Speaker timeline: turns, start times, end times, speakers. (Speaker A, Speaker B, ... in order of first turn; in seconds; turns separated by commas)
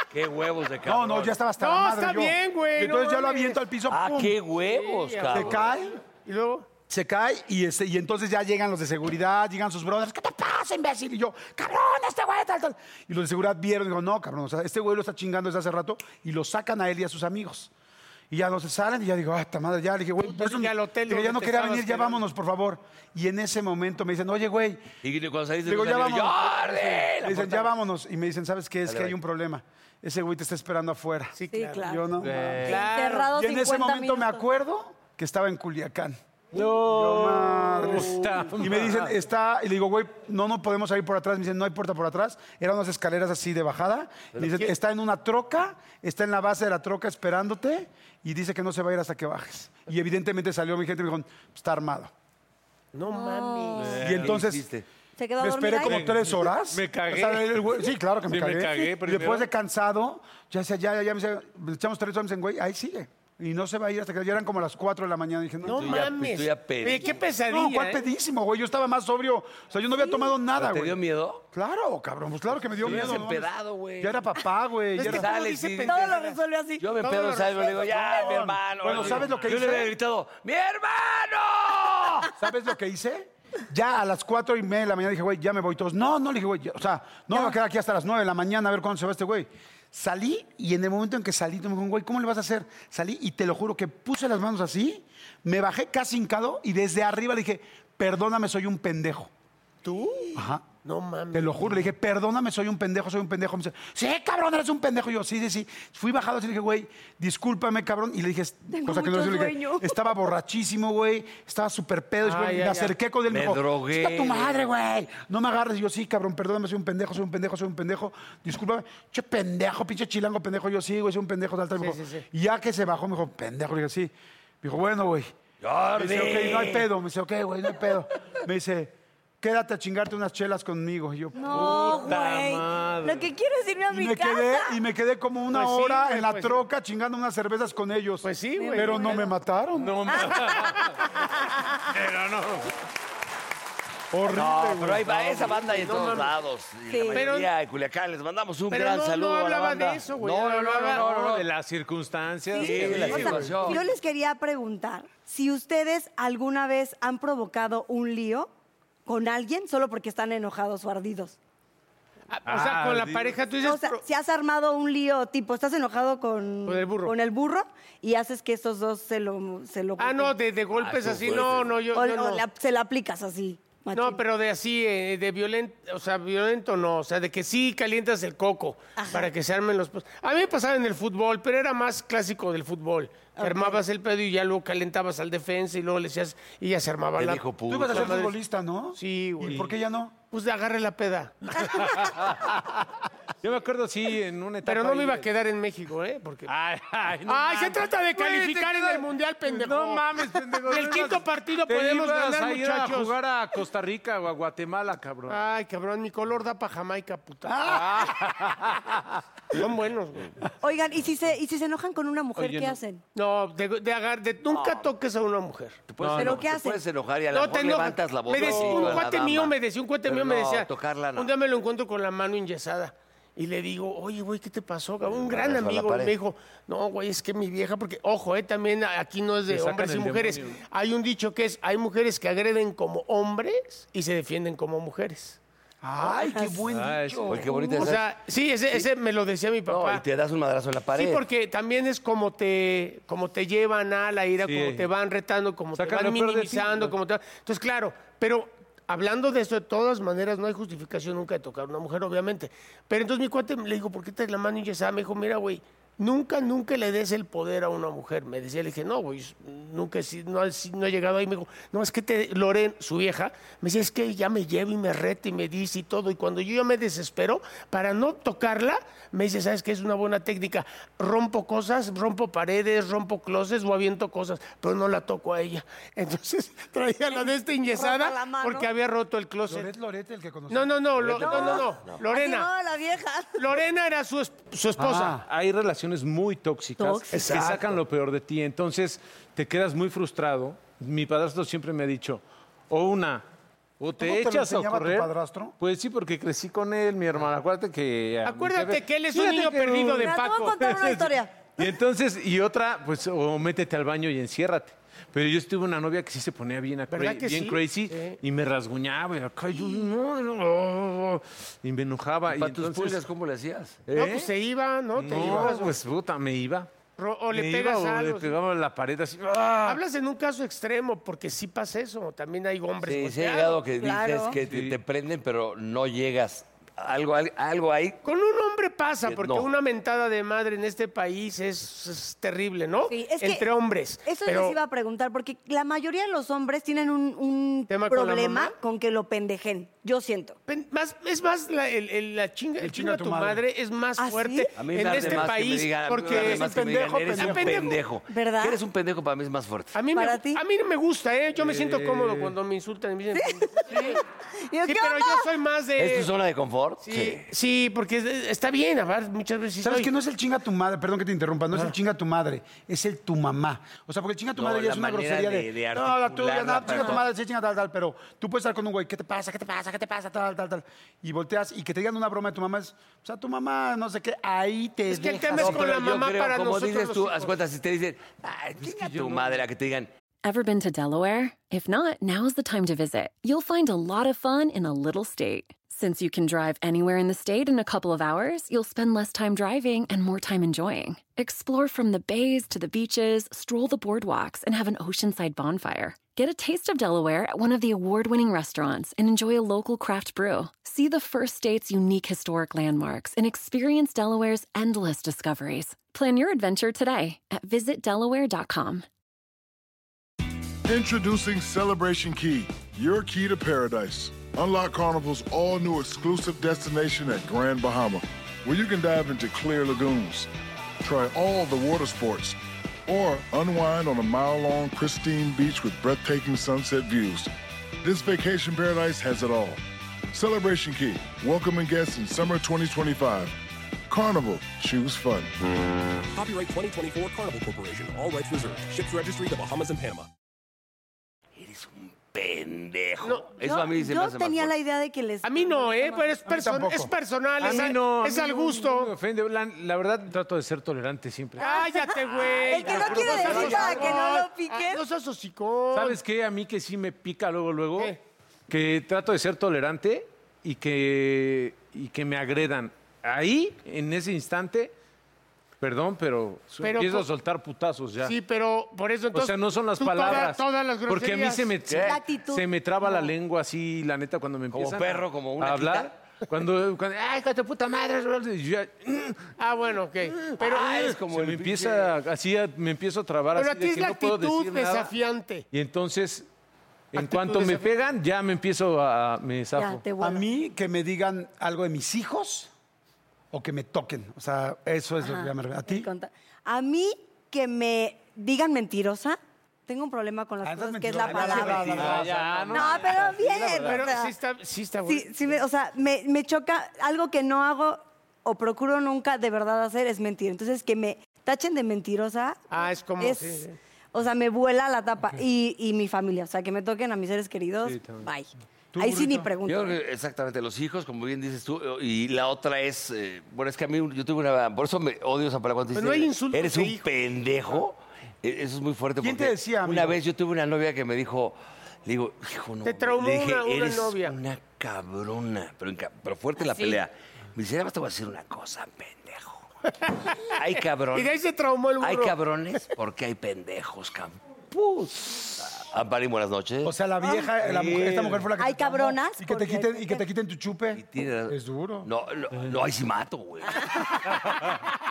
Speaker A: 0.1-1.4, Speaker B: 0.8-4.3, Speaker C: 1.6-3.6, Speaker A: 3.9-5.7, Speaker C: 4.6-6.7, Speaker B: 5.3-6.0, Speaker B: 6.9-17.7, Speaker B: 18.3-24.9, Speaker C: 20.2-22.2, Speaker A: 25.0-27.7, Speaker B: 25.6-32.6, Speaker A: 28.9-29.1, Speaker C: 31.4-31.9, Speaker D: 31.5-32.0, Speaker E: 32.2-32.9, Speaker C: 32.6-33.3, Speaker D: 32.6-34.5, Speaker B: 33.3-52.1, Speaker E: 36.5-39.1, Speaker C: 44.4-44.7, Speaker C: 52.9-54.0, Speaker D: 53.1-54.0, Speaker E: 53.8-54.4, Speaker B: 54.0-54.7, Speaker A: 54.2-54.9, Speaker D: 55.2-56.0, Speaker B: 55.4-66.0, Speaker E: 55.8-59.5, Speaker C: 65.6-68.0, Speaker A: 65.7-67.2, Speaker B: 67.5-71.0, Speaker A: 70.5-71.4, Speaker B: 71.5-75.3, Speaker A: 72.8-74.2, Speaker E: 72.8-73.2, Speaker C: 75.0-76.4, Speaker A: 75.0-76.2, Speaker D: 75.8-77.4, Speaker A: 76.8-82.3, Speaker C: 77.0-78.1, Speaker B: 77.9-79.9, Speaker E: 78.9-79.5, Speaker B: 82.4-99.3, Speaker C: 99.8-101.9, Speaker B: 100.3-100.7, Speaker B: 101.3-125.3, Speaker D: 108.7-110.0, Speaker C: 112.2-113.0, Speaker A: 113.3-114.7, Speaker C: 121.8-122.2, Speaker A: 125.6-126.9, Speaker B: 126.0-132.1, Speaker D: 131.4-134.8, Speaker E: 131.5-133.3, Speaker B: 133.9-140.0, Speaker C: 135.5-136.6, Speaker C: 138.2-139.3, Speaker D: 138.6-139.3, Speaker E: 139.8-141.2, Speaker D: 140.3-141.7, Speaker E: 141.8-142.7, Speaker B: 144.1-145.7, Speaker A: 144.3-151.4, Speaker C: 145.6-146.4, Speaker D: 146.9-147.2, Speaker C: 147.1-147.5, Speaker C: 148.7-151.0, Speaker E: 150.9-153.6, Speaker D: 152.5-158.5, Speaker A: 152.6-153.8, Speaker D: 159.1-161.4, Speaker C: 162.3-164.0, Speaker E: 162.5-163.4, Speaker D: 163.6-170.4, Speaker C: 166.7-167.2, Speaker C: 170.0-172.4, Speaker A: 170.7-171.8, Speaker D: 171.9-174.2, Speaker C: 173.9-188.3, Speaker D: 179.0-179.3, Speaker D: 183.4-183.8, Speaker A: 187.2-188.2, Speaker B: 187.7-190.2, Speaker C: 188.9-189.7, Speaker C: 190.3-192.1, Speaker E: 191.6-192.7, Speaker E: 193.4-195.3, Speaker C: 194.7-196.5, Speaker E: 196.5-205.4, Speaker C: 197.3-200.1, Speaker C: 200.6-203.2, Speaker C: 205.3-207.7, Speaker B: 207.4-208.3, Speaker E: 207.6-209.0, Speaker C: 209.5-210.3, Speaker D: 210.6-213.0, Speaker E: 212.4-212.8, Speaker C: 213.2-215.8, Speaker A: 214.5-214.9, Speaker A: 215.9-221.3, Speaker E: 216.0-216.4, Speaker D: 216.2-216.8, Speaker C: 217.3-235.4, Speaker E: 218.4-219.1, Speaker A: 225.1-226.2, Speaker E: 229.5-230.6, Speaker B: 235.8-237.5, Speaker D: 236.2-236.6, Speaker E: 236.7-237.4, Speaker A: 237.3-238.1, Speaker C: 237.8-240.0, Speaker A: 239.7-241.2, Speaker C: 240.9-279.7, Speaker E: 244.4-244.9, Speaker E: 245.8-247.0, Speaker D: 277.7-278.7, Speaker B: 279.5-280.8, Speaker C: 280.5-282.5, Speaker A: 280.9-282.0, Speaker D: 281.2-283.4, Speaker C: 283.4-285.2, Speaker B: 284.8-285.2, Speaker E: 285.2-293.2, Speaker D: 286.8-287.1, Speaker A: 287.1-287.8, Speaker E: 293.8-295.1, Speaker B: 294.0-295.6, Speaker E: 295.6-299.4, Speaker C: 298.2-300.6, Speaker D: 299.1-301.3, Speaker E: 300.6-313.0, Speaker C: 306.9-308.2, Speaker A: 312.3-313.8, Speaker E: 313.9-314.3, Speaker C: 313.9-315.8, Speaker E: 314.9-316.7, Speaker B: 315.2-315.5, Speaker C: 317.0-318.4, Speaker E: 317.3-319.8, Speaker C: 319.6-323.6, Speaker A: 322.8-328.0, Speaker D: 323.8-324.4, Speaker E: 324.4-324.8, Speaker C: 328.0-334.6, Speaker A: 329.0-329.5, Speaker D: 332.9-333.5, Speaker D: 334.1-340.4, Speaker C: 337.7-338.5, Speaker C: 340.5-346.5, Speaker B: 342.6-343.4, Speaker D: 344.0-344.5, Speaker A: 344.6-349.8, Speaker B: 346.1-347.7, Speaker C: 347.1-347.8, Speaker D: 348.1-348.6, Speaker C: 349.7-354.0, Speaker D: 349.9-350.4, Speaker E: 351.4-352.4, Speaker D: 353.1-355.3, Speaker C: 354.6-356.1, Speaker A: 355.8-357.3, Speaker C: 356.8-359.9, Speaker B: 359.6-375.7, Speaker A: 364.4-367.1, Speaker C: 374.9-377.4, Speaker A: 375.3-379.9, Speaker E: 378.6-379.4, Speaker F: 380.2-408.9, Speaker G: 410.6-420.3, Speaker G: 420.8-427.3, Speaker G: 427.8-429.6, Speaker G: 430.1-433.4, Speaker G: 433.9-435.3, Speaker H: 436.1-440.1, Speaker A: 441.4-444.5, Speaker C: 443.0-443.3, Speaker D: 443.4-446.2, Speaker C: 445.2-448.9, Speaker B: 446.3-446.9, Speaker E: 447.4-451.6, Speaker C: 451.4-456.0, Speaker D: 451.4-454.8, Speaker E: 452.6-453.9, Speaker E: 455.7-458.0, Speaker E: 458.5-464.7, Speaker E: 465.6-468.1, Speaker C: 466.6-467.1, Speaker C: 468.0-471.5, Speaker E: 469.1-479.3, Speaker A: 471.7-472.0, Speaker D: 471.9-473.1, Speaker A: 474.5-475.9, Speaker C: 479.4-480.9, Speaker A: 480.3-481.9, Speaker E: 480.9-484.9, Speaker C: 483.4-485.5, Speaker E: 485.5-486.3, Speaker E: 486.9-489.8, Speaker C: 487.0-487.7, Speaker D: 489.6-490.2, Speaker B: 490.0-492.5, Speaker B: 493.3-495.9, Speaker D: 495.0-502.0, Speaker B: 500.4-502.5, Speaker E: 501.4-503.9, Speaker D: 502.5-504.1, Speaker C: 503.6-505.3, Speaker D: 504.9-519.8, Speaker C: 512.5-513.6, Speaker E: 517.6-518.1, Speaker B: 518.7-519.3, Speaker A: 519.4-539.4, Speaker C: 525.7-526.9, Speaker B: 529.0-530.0, Speaker C: 532.6-534.2, Speaker A: 540.3-541.2, Speaker C: 540.9-542.1, Speaker A: 541.8-544.2, Speaker A: 545.4-546.7, Speaker B: 546.6-551.9, Speaker E: 547.4-548.3, Speaker D: 548.4-550.0, Speaker A: 550.7-554.0